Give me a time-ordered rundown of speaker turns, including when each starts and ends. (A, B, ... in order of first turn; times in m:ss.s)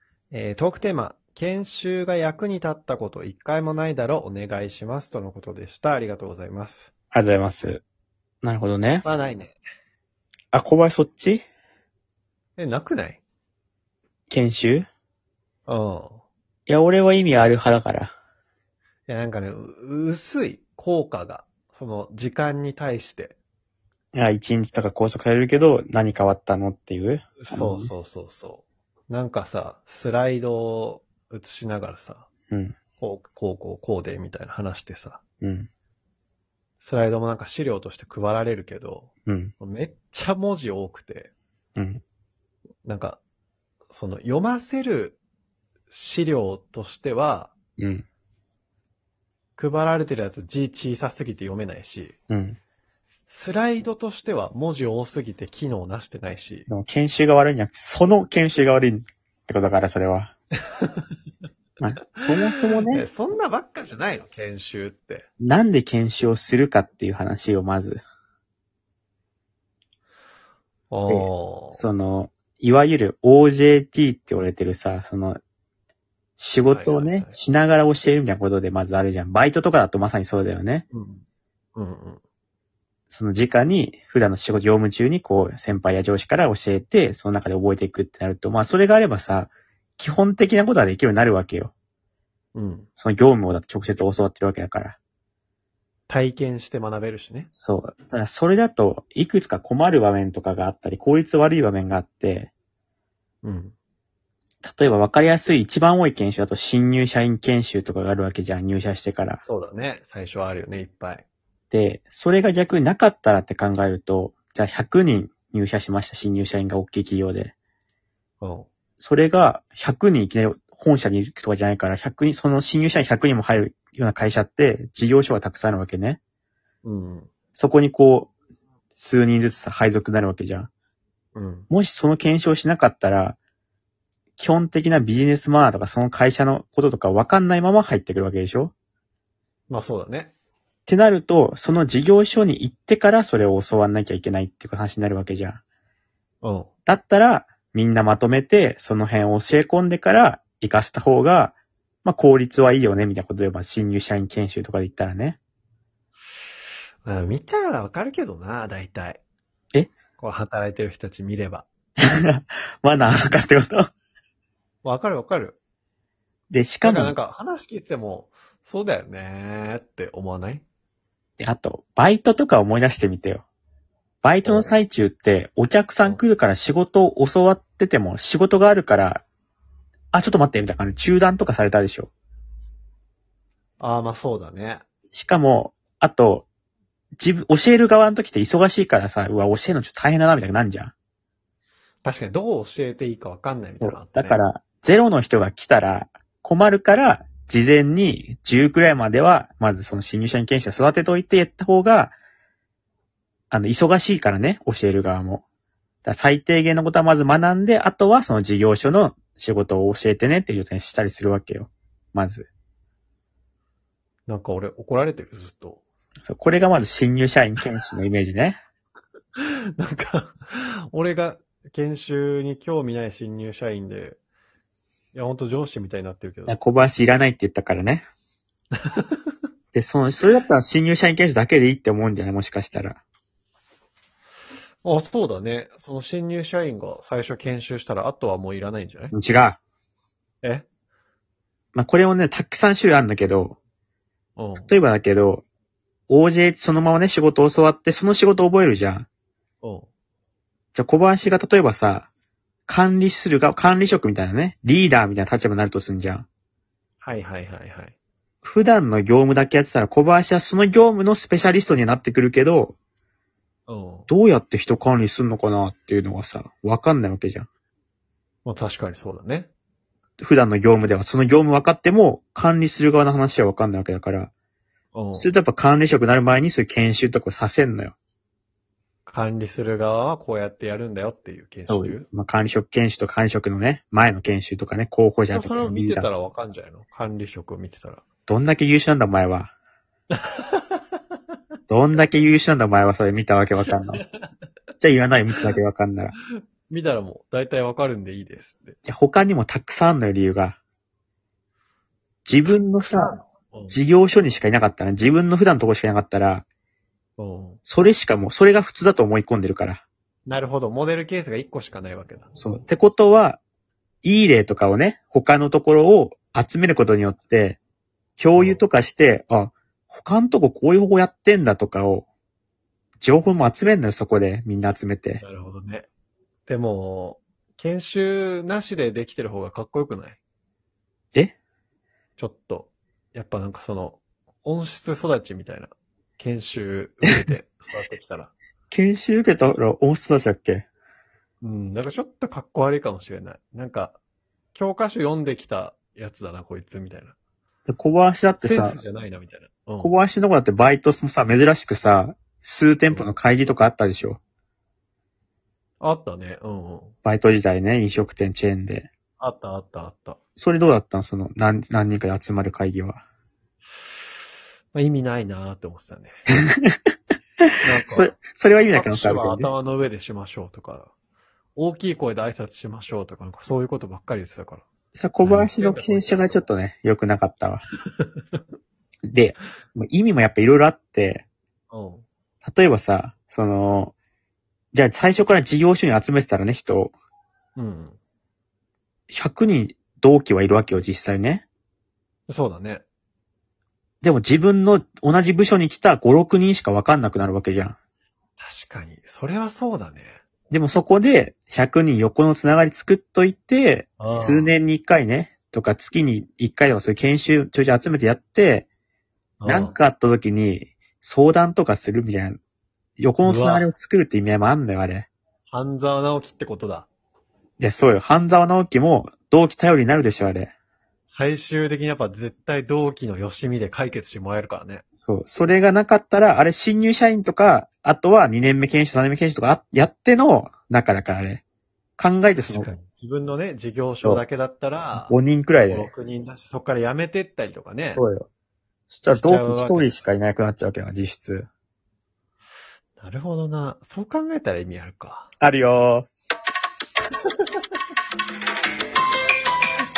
0:00.3-0:06.9 A
0:07.1-0:07.8 B
0:08.4-0:09.1 B
0:09.0-0:09.6 A
0:10.5-0:11.4 B
0:12.6-0:13.2 A
0:14.3-0:14.9 B
0:15.7-0:16.2 A
0:16.7-0:18.1 B
0:19.1-0:23.4 A
0:24.1-0:27.9 B
0:27.4-0:32.3 A
0:32.5-0:32.8 B
0:33.0-0:35.2 A
0:35.4-0:35.7 B
0:36.8-0:41.3 A
0:39.3-0:39.5 B
0:41.8-0:42.0 B
0:42.8-0:43.2 A
0:43.9-0:45.2 A
0:45.9-0:47.5 A
0:47.8-0:48.0 B
0:49.6-0:52.2 A
0:52.3-0:52.6 B
0:53.3-0:56.7 A
0:56.7-1:00.3 B
1:00.7-1:01.1 A
1:01.8-1:03.0 B
1:02.2-1:05.3 A
1:05.4-1:08.0 B
1:10.9-1:11.8 A
1:11.1-1:15.4 B
1:16.4-1:20.9 B
1:16.7-1:17.4 A
1:20.9-1:21.2 A
1:21.8-1:22.2 A
1:23.1-1:31.7 B
1:32.6-1:32.9 A
1:33.0-1:35.0 B
1:36.1-1:37.5 A
1:37.5-1:42.5 B
1:43.4-1:43.8 A
1:44.6-1:49.4 B
1:49.4-1:51.3 A
1:51.7-1:57.5 B
1:58.4-1:58.7 A
1:59.0-2:06.2 B
2:06.8-2:07.3 A
2:07.6-2:08.3 B
2:09.0-2:10.7 B
2:11.4-2:11.7 A
2:11.7-2:13.4 B
2:14.4-2:18.7 B
2:19.7-2:20.3 A
2:20.9-2:25.6 B
2:26.4-2:26.7 A
2:26.9-2:35.4 B
2:37.0-2:39.2 A
2:40.2-2:41.7 A
2:42.1-2:43.9 B
2:44.8-2:45.6 A
2:46.5-2:47.1 B
2:46.8-2:50.6 A
2:51.4-2:53.4 B
2:54.2-2:59.2 B
2:54.4-2:54.8 A
3:00.1-3:02.1 B
3:03.8-3:04.8 A
3:05.1-3:06.5 B
3:07.2-3:10.9 B
3:12.0-3:14.4 A
3:13.8-3:22.2 B
3:23.5-3:25.4 B
3:26.0-3:32.5 B
3:34.3-3:35.8 A
3:36.2-3:38.6 B
3:39.4-3:44.2 A
3:45.1-3:46.6 A
3:46.5-3:48.1 B
3:48.8-3:49.3 A
3:49.7-3:53.0 B
3:54.8-3:59.1 A
3:59.1-3:59.6 B
4:01.7-4:03.6 B
4:04.4-4:04.7 A
4:04.6-4:05.4 B
4:06.1-4:09.1 B
4:09.6-4:09.9 A
4:10.8-4:12.1 B
4:12.7-4:16.3 B
4:17.0-4:18.0 A
4:18.4-4:22.8 B
4:23.7-4:24.1 A
4:24.1-4:27.5 B
4:28.4-4:29.5 A
4:30.2-4:34.3 B
4:34.9-4:35.3 A
4:35.2-4:38.0 B
4:39.1-4:42.1 A
4:41.7-4:46.1 B
4:45.3-4:48.0 A
4:48.3-4:49.5 B
4:50.1-4:50.8 A
4:51.7-4:54.0 B
4:53.7-4:54.3 A
4:54.8-4:56.2 B
4:56.3-4:58.8 A
4:58.9-5:00.6 B
5:02.3-5:03.2 B
5:02.5-5:03.8 A
5:03.7-5:06.4 B
5:07.2-5:07.6 A
5:07.6-5:09.8 B
5:10.3-5:12.3 A
5:12.4-5:13.4 B
5:14.0-5:17.6 B
5:18.2-5:22.1 B
5:18.4-5:18.6 A
5:23.0-5:25.2 B
5:25.2-5:25.9 A
5:26.5-5:30.2 A
5:32.2-5:38.3 A
5:38.7-5:40.7 B
5:41.4-5:44.0 A
5:44.5-5:47.2 A
5:47.7-5:48.8 B
5:48.4-5:50.0 A
5:49.8-5:54.2 B
5:55.8-5:57.0 A
5:57.0-5:58.9 B
5:59.2-6:00.2 A
6:00.4-6:03.0 B
6:04.7-6:06.1 A
6:06.5-6:06.8 B
6:07.4-6:09.5 B
6:07.6-6:08.1 A
6:08.7-6:10.9 A
6:11.6-6:14.7 A
6:15.0-6:17.6 B
6:15.2-6:16.4 A
6:18.0-6:18.4 A
6:19.1-6:21.2 B
6:21.7-6:22.1 A
6:22.4-6:23.9 B
6:24.7-6:26.9 B
6:27.6-6:28.0 A
6:29.1-6:31.4 B
6:32.3-6:32.8 A
6:34.0-6:37.8 B
6:38.4-6:40.2 A
6:40.5-6:48.7 B
6:44.0-6:44.5 A
6:49.4-6:49.8 A
6:49.5-6:52.4 B
6:53.0-6:55.1 B
6:53.2-6:53.7 A
6:55.5-6:56.9 A
6:57.6-7:00.5 B
7:01.1-7:04.8 A
7:05.0-7:11.4 B
7:12.0-7:12.7 B
7:12.4-7:15.2 A
7:15.0-7:15.9 B
7:15.7-7:18.0 A
7:17.9-7:18.3 B
7:18.9-7:21.5 B
7:19.1-7:20.0 A
7:23.0-7:25.3 A
7:25.4-7:26.1 B